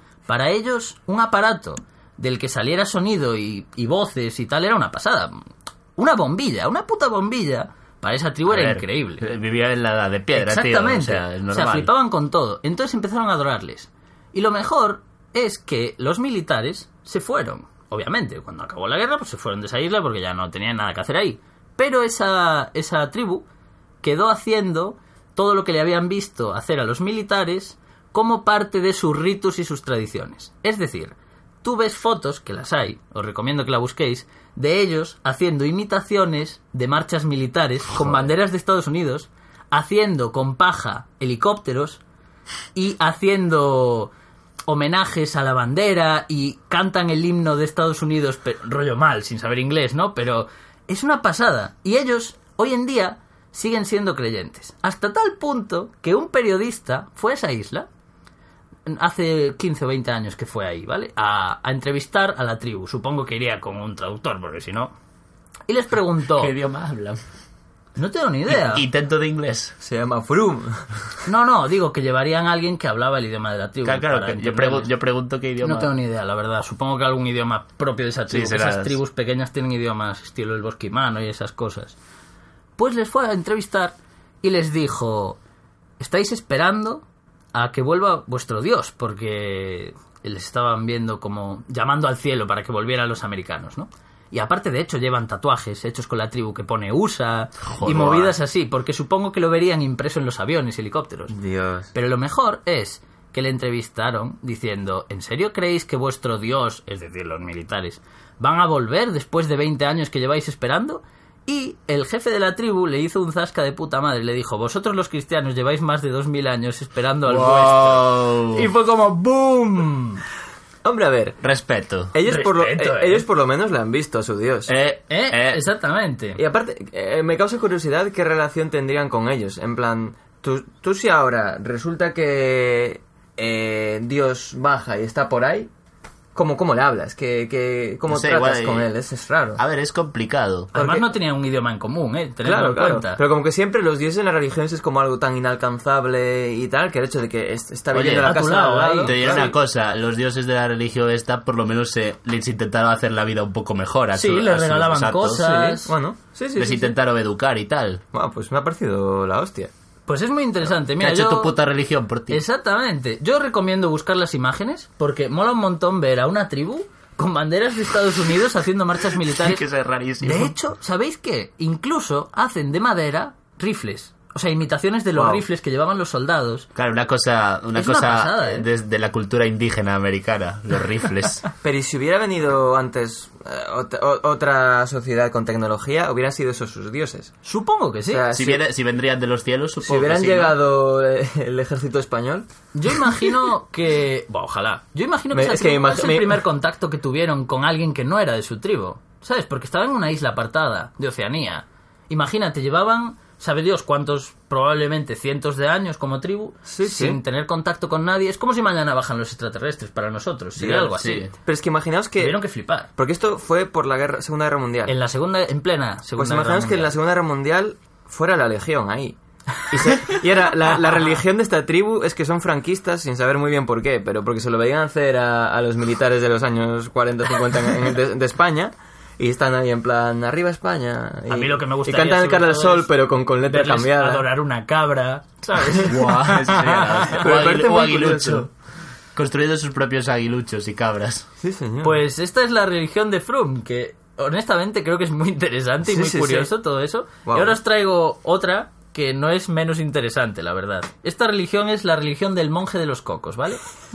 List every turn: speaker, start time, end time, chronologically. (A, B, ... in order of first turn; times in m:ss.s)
0:00.3-0:05.4 A
0:06.0-0:09.2 A
0:08.5-0:11.9 B
0:10.3-0:23.4 A
0:24.0-0:42.0 A
0:38.0-0:38.2 B
0:42.7-0:44.1 A
0:44.7-0:57.9 A
0:58.9-1:04.9 A
1:05.7-1:06.5 A
1:06.4-1:07.2 B
1:08.0-1:08.8 A
1:08.5-1:09.7 B
1:09.8-1:10.8 C
1:11.2-1:14.9 A
1:13.8-1:15.9 B
1:15.6-1:22.0 A
1:18.3-1:19.0 B
1:22.8-1:25.4 A
1:26.0-1:41.3 A
1:37.6-1:38.4 B
1:41.3-1:41.9 C
1:41.9-2:00.2 A
1:57.3-1:58.7 B
2:00.8-2:01.4 C
2:01.4-2:02.1 B
2:02.1-2:04.7 C
2:02.2-2:03.2 A
2:04.7-2:05.6 B
2:05.1-2:06.4 A
2:06.4-2:15.7 C
2:16.3-2:19.6 C
2:18.1-2:18.9 B
2:19.6-2:20.7 B
2:20.7-2:23.2 A
2:20.7-2:21.0 C
2:22.4-2:29.5 C
2:27.9-2:28.3 B
2:28.2-2:29.2 A
2:29.0-2:35.4 B
2:34.1-2:35.9 A
2:35.3-2:36.9 C
2:36.5-2:38.0 B
2:38.1-2:39.7 C
2:40.1-2:41.5 A
2:41.0-2:42.4 B
2:42.3-2:49.6 A
2:49.3-2:50.5 B
2:50.2-2:56.7 A
2:55.1-2:55.4 C
2:56.8-3:01.4 B
2:57.7-2:58.7 A
3:01.6-3:07.3 C
3:07.4-3:08.2 A
3:08.1-3:08.6 C
3:08.3-3:10.6 B
3:09.8-3:12.4 C
3:12.7-3:31.3 A
3:15.3-3:16.4 C
3:26.6-3:27.2 C
3:30.6-3:32.4 C
3:30.9-3:31.3 B
3:32.2-3:32.9 A
3:33.0-3:34.9 C
3:34.9-3:36.9 A
3:36.2-3:54.2 C
3:51.3-3:52.9 A
3:53.5-3:57.2 A
3:55.8-3:58.5 B
3:57.1-3:58.5 C
3:59.1-4:01.3 B
4:01.4-4:02.0 C
4:01.8-4:13.6 A
4:05.8-4:06.5 C
4:07.2-4:07.6 C